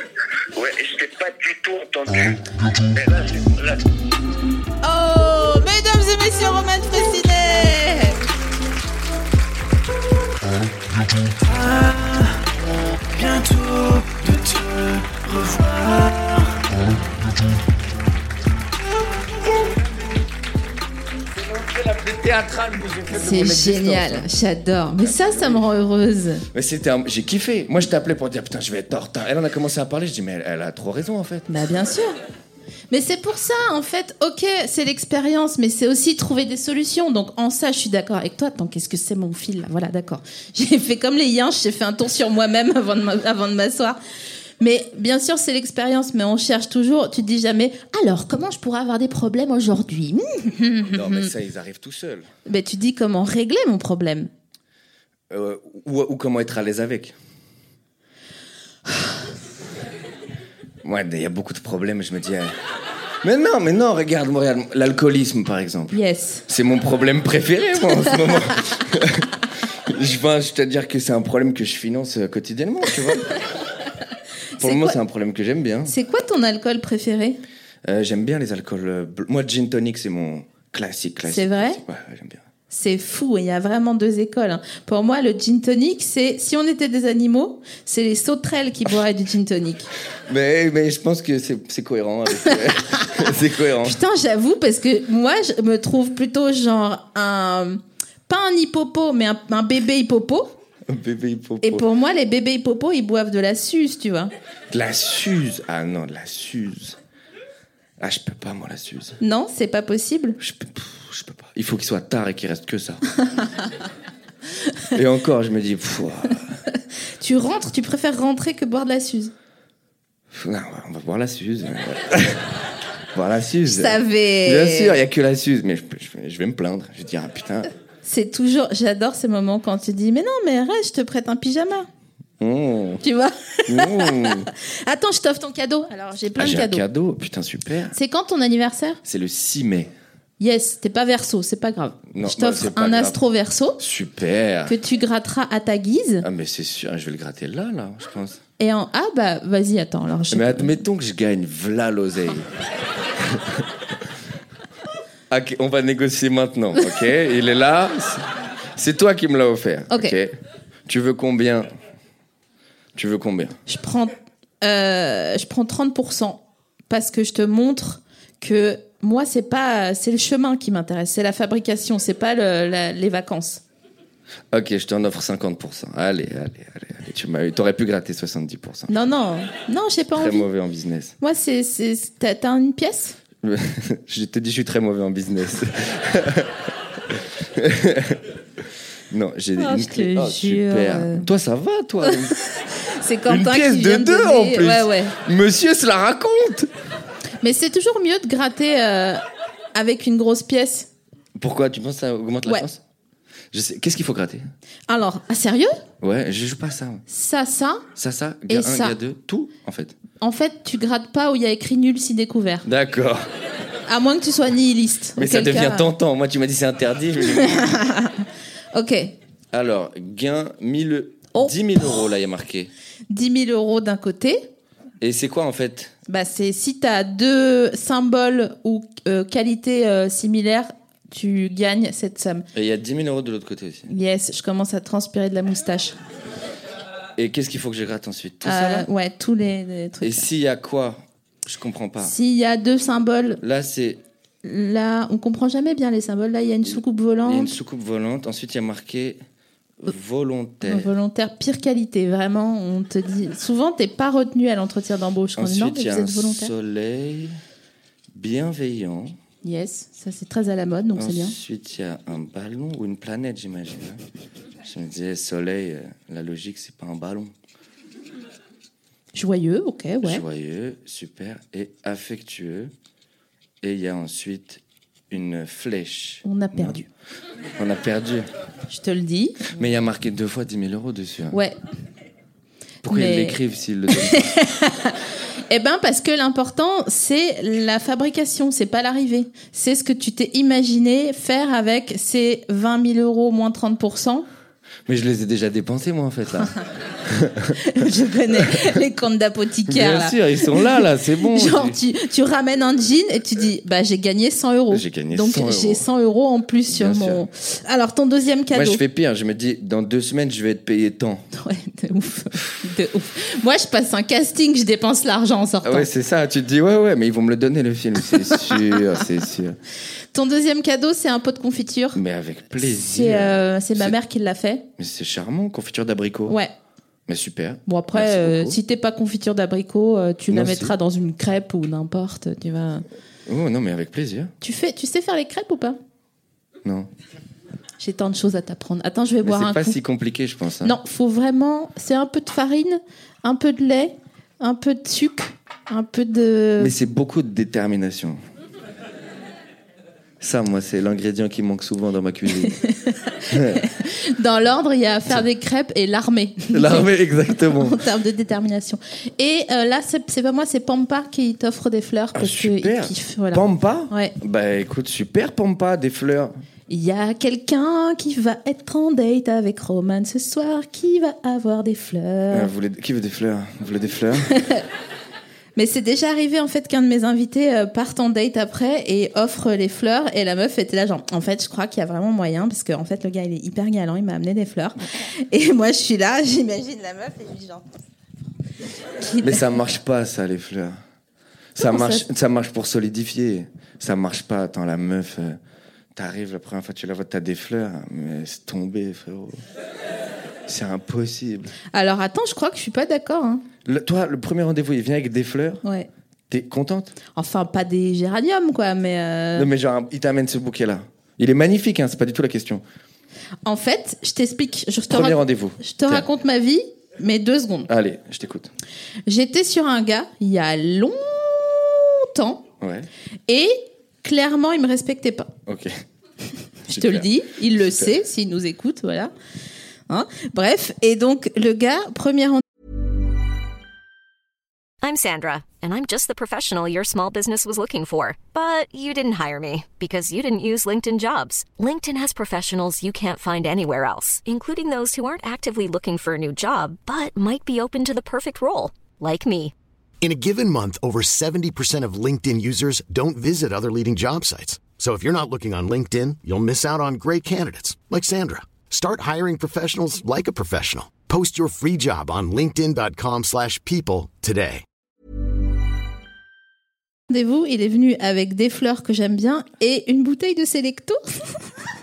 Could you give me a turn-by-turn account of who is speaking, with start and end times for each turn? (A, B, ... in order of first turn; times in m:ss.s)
0:00.5-0:03.8 A
0:04.8-0:08.2 B
0:11.4-0:12.4 C
0:13.1-0:16.6 C
0:19.4-0:19.8 C
0:21.4-0:24.3 C
0:23.1-0:26.4 B
0:25.0-0:25.6 C
0:26.5-0:31.4 C
0:31.5-0:32.2 B
0:32.9-0:44.0 B
0:44.6-0:51.3 B
0:50.9-0:52.3 C
0:52.4-0:54.3 B
0:55.3-0:57.2 C
1:00.8-1:02.5 C
1:03.2-1:06.0 C
1:05.9-1:06.4 B
1:06.5-1:09.3 C
1:09.9-1:13.4 C
1:14.6-1:15.0 B
1:14.6-1:15.9 C
1:15.9-1:17.4 B
1:17.8-1:22.4 C
1:21.2-1:21.8 B
1:22.7-1:29.9 B
1:30.3-1:34.0 C
1:32.4-1:33.2 B
1:33.8-1:40.5 B
1:40.9-1:41.8 C
1:41.6-1:44.3 B
1:44.7-1:47.0 C
1:48.0-1:49.2 C
1:49.2-1:50.4 B
1:50.4-1:53.2 C
1:54.9-1:56.6 C
1:57.2-1:59.3 B
2:00.3-2:02.6 C
2:03.1-2:07.7 C
2:03.6-2:05.0 B
2:08.0-2:11.9 B
2:12.4-2:13.0 C
2:13.0-2:16.8 B
2:13.7-2:14.5 C
2:16.4-2:18.0 C
2:17.9-2:19.0 B
2:19.0-2:19.9 C
2:20.4-2:23.8 B
2:22.1-2:23.2 C
2:23.8-2:24.8 C
2:24.7-2:26.2 B
2:26.2-2:28.4 C
2:28.6-2:30.8 B
2:30.3-2:32.5 C
2:33.3-2:33.6 C
2:35.3-2:40.3 C
2:39.9-2:40.1 B
2:40.9-2:41.7 C
2:42.9-2:43.6 C
2:43.6-2:53.6 B
2:54.5-2:58.9 C
2:58.9-3:00.5 B
3:00.1-3:01.1 C
3:01.2-3:03.2 B
3:03.4-3:08.2 C
3:09.1-3:12.4 C
3:09.6-3:11.3 B
3:12.0-3:15.1 B
3:13.3-3:16.7 C
3:17.4-3:19.2 B
3:19.7-3:20.9 B
3:21.4-3:22.8 C
3:23.5-3:24.4 C
3:24.9-3:25.8 B
3:26.0-3:27.0 C
3:27.1-3:27.8 B
3:28.0-3:30.0 C
3:28.5-3:29.0 B
3:30.2-3:32.6 B
3:32.6-3:33.2 C
3:33.9-3:35.9 B
3:35.2-3:37.8 C
3:37.3-3:39.1 B
3:39.5-3:42.7 C
3:41.3-3:42.0 B
3:43.1-3:44.4 B
3:45.0-3:45.9 C
3:46.1-3:52.5 B
3:52.5-3:53.9 C
3:53.9-3:56.0 B
3:57.2-3:58.9 C
3:58.4-4:00.3 B
4:00.0-4:02.2 C
4:02.0-4:03.4 B
4:03.4-4:04.0 C
4:04.4-4:07.5 B
4:06.6-4:09.2 C
4:09.8-4:10.9 C
4:10.6-4:16.5 B
4:15.4-4:17.3 C
4:18.1-4:19.1 C
4:19.4-4:21.3 B
4:21.0-4:24.0 C
4:24.6-4:27.3 C
4:29.1-4:30.2 B
4:30.0-4:32.7 C
4:33.6-4:34.6 C
4:35.1-4:36.8 C
4:36.2-4:36.8 B
4:37.6-4:38.3 C
4:38.7-4:39.5 B
4:39.5-4:41.4 C
4:41.3-4:41.6 B
4:42.8-4:44.3 C
4:42.9-4:43.4 B
4:43.9-4:54.2 B
4:54.9-4:57.8 C
4:57.6-5:08.8 B
4:59.6-5:01.8 C
5:04.7-5:05.8 C
5:06.7-5:07.2 C
5:08.5-5:11.2 C
5:11.4-5:15.9 B
5:15.6-5:19.6 C
5:18.1-5:18.9 B
5:20.1-5:22.0 B
5:21.9-5:23.9 C
5:22.6-5:24.6 B
5:24.8-5:26.4 C
5:27.1-5:28.6 C
5:27.6-5:32.8 B
5:30.3-5:30.7 C
5:33.3-5:34.3 C
5:34.4-5:35.8 B
5:36.6-5:36.9 C
5:37.8-5:39.8 B
5:39.2-5:40.8 C
5:40.6-5:46.7 B
5:46.6-5:48.2 C
5:50.2-5:52.6 C
5:52.4-5:56.8 B
5:53.3-5:53.6 C
5:56.5-5:57.8 C
5:57.5-6:04.1 B
6:02.1-6:06.3 C
6:06.7-6:12.5 B
6:12.3-6:14.3 C
6:14.2-6:14.6 B
6:15.6-6:27.7 B
6:29.0-6:29.4 B
6:29.2-6:30.8 C
6:31.5-6:35.4 C
6:31.6-6:32.1 B
6:35.9-6:39.4 C
6:40.5-6:41.5 C
6:41.7-6:43.4 B
6:43.6-6:45.6 C
6:46.3-6:46.9 C
6:47.1-6:49.5 B
6:49.3-6:52.6 C
6:53.4-6:57.7 B
6:54.9-6:56.1 C
6:57.7-6:58.5 C
6:59.1-7:02.4 B
7:02.6-7:02.9 C
7:03.3-7:05.3 B
7:05.5-7:05.7 C
7:06.7-7:07.9 C
7:06.7-7:09.1 B
7:09.9-7:12.4 B
7:14.8-7:29.5 D
7:30.0-7:44.6 E
7:47.1-7:51.4 B